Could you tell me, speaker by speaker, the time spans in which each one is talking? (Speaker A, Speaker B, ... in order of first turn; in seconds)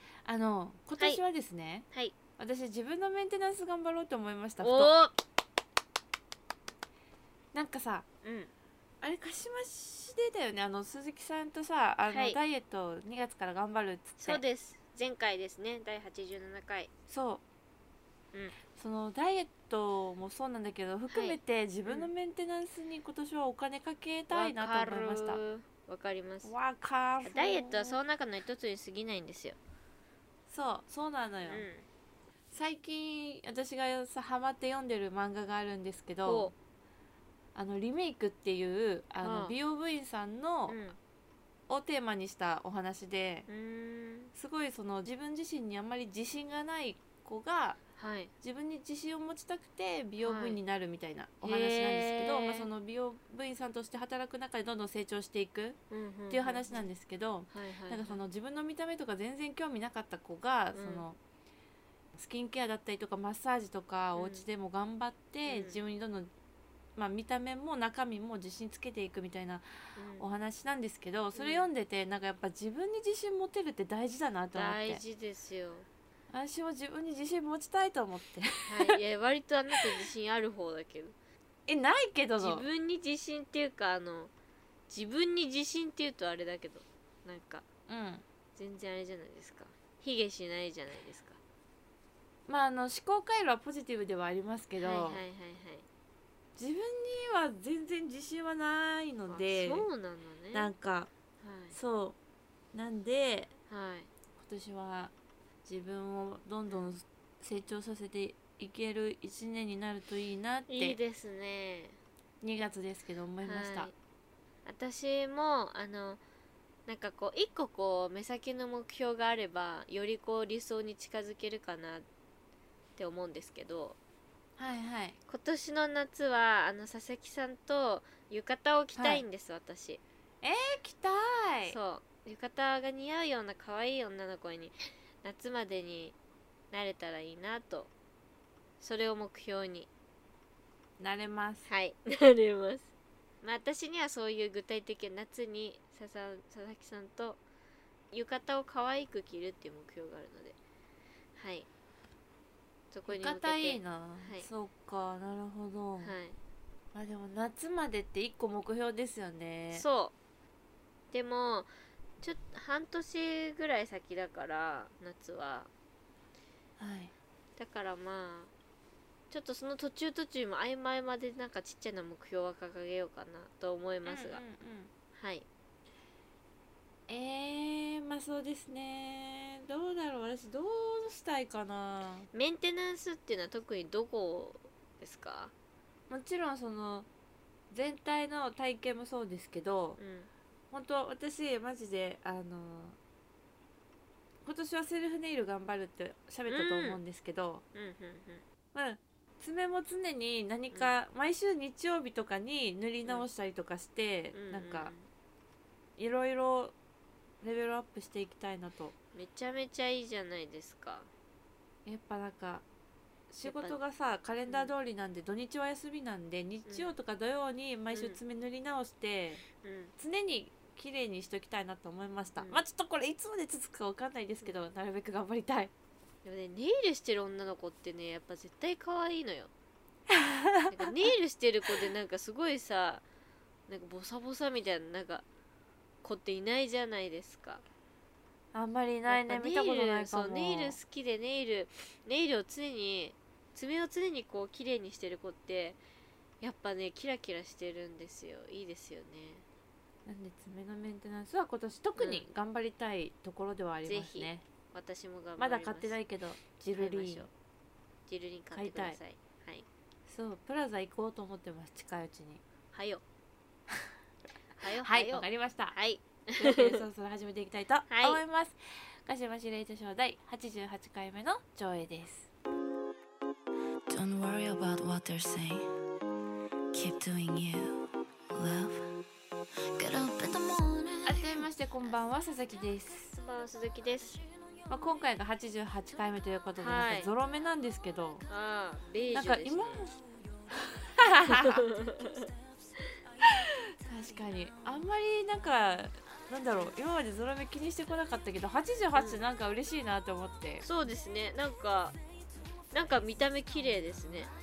Speaker A: 0.2-1.9, 2.4-4.9, 7.5-8.1, 9.0-14.4, 17.1-17.4, 18.7-25.4, 26.4-28.0, 30.5-31.6, 32.5-36.5, 37.5-40.8, 41.7-43.5, 44.4-47.8, 48.4-55.8, 56.3-61.2, 62.1-66.3, 67.0-69.7, 70.2-75.0, 76.3-78.9, 81.7-82.6, 87.9-88.2, 92.5-95.2, 96.6-99.9, 100.5-101.1, 101.7-102.2, 102.7-103.5, 104.4-105.1, 105.6-111.0, 112.4-113.9, 124.6-125.2, 128.9-129.2, 130.4-131.8, 141.0-141.6, 153.1-156.1, 156.9-159.8, 166.8-167.1, 174.1-174.9, 177.1-182.3, 186.1-187.1, 187.7-190.0, 190.7-193.0, 194.4-197.6, 198.7-204.9, 206.0-206.7, 207.4-208.9, 211.8-212.6, 213.4-219.4, 220.0-225.7, 230.1-230.9, 238.5-240.8, 250.1-254.4, 255.4-257.3, 258.5-259.0, 260.1-262.4, 264.8-265.8, 266.4-272.3, 281.0-283.2, 284.7-288.2, 289.1-290.0, 290.7-291.6, 293.2-300.6
Speaker B: 4.6-5.1, 8.2-8.5, 12.1-12.4, 14.2-16.9, 21.1-22.1, 24.3-26.5, 27.2-29.6, 31.4-31.8, 36.2-36.5, 39.2-39.5, 40.7-41.0, 43.5-44.3, 48.0-48.3, 50.2-50.6, 51.4-52.7, 55.9-56.8, 57.5-58.2, 60.8-61.0, 64.2-64.5, 65.5-65.8, 70.0-70.2, 71.3-71.7, 74.5-75.9, 78.7-81.1, 82.4-84.3, 84.9-87.6, 88.5-91.4, 94.8-95.8, 99.3-100.7, 101.4-101.8, 103.7-104.1, 110.7-112.0, 113.4-113.9, 114.6-116.2, 116.9-122.0, 123.0-124.0, 125.3-130.0, 131.7-136.1, 136.7-137.9, 138.8-139.9, 141.7-142.9, 143.4-147.4, 148.1-150.6, 151.3-151.7, 152.9-154.5, 156.0-156.4, 159.7-160.1, 161.1-165.7, 167.6-168.5, 169.3-174.4, 175.1-175.4, 182.3-185.5, 190.0-190.3, 196.5-197.0, 197.7-198.4, 204.3-205.0, 209.1-211.1, 213.3-213.8, 216.7-216.9, 217.9-218.2, 219.5-219.9, 226.2-229.5, 230.7-233.0, 233.7-235.2, 236.0-237.6, 239.1-245.8, 246.4-249.4, 252.0-252.2, 253.8-256.0, 256.8-257.3, 258.1-259.6, 262.7-263.0, 264.6-266.8, 267.9-268.2, 283.2-284.2, 286.6-287.1, 288.3-289.8, 291.3-292.3, 300.6-302.0, 302.7-304.3
Speaker C: 273.9-275.7, 276.7-277.8, 278.3-279.0, 279.7-281.4